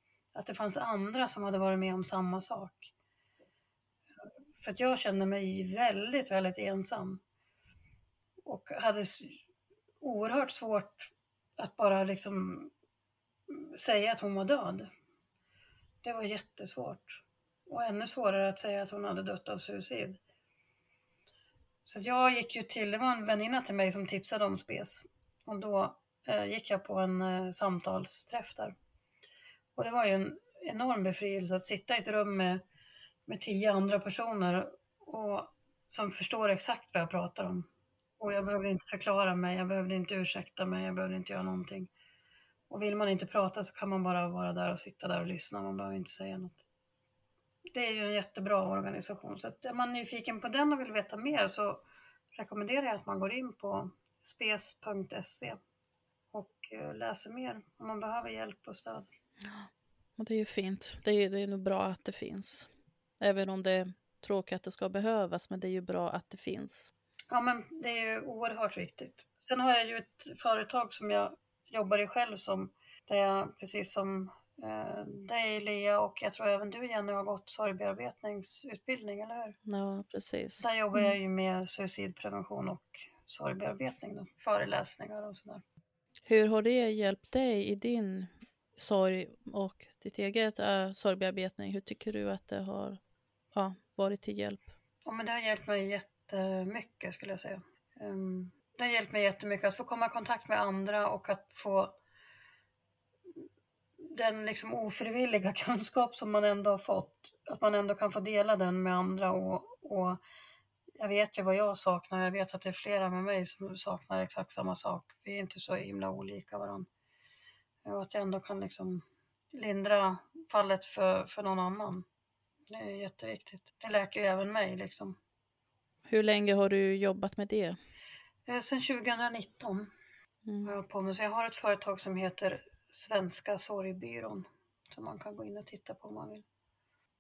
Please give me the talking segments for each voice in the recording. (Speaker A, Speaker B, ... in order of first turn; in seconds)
Speaker A: 0.3-2.9, 4.6-7.2, 8.4-9.4, 10.0-12.7, 13.5-14.9, 16.0-20.2, 21.9-28.7, 29.8-32.6, 33.3-37.7, 38.2-41.9, 42.7-46.6, 47.7-51.8, 52.4-55.6, 56.3-59.1, 67.3-79.5, 80.6-85.6, 95.0-101.9, 104.0-110.2, 111.0-116.9, 117.8-122.0, 122.7-125.2, 128.5-129.9, 130.6-136.4
Speaker B: 59.4-62.7, 63.2-66.9, 79.7-80.7, 86.2-93.0, 93.5-94.7, 126.1-127.8, 130.4-130.7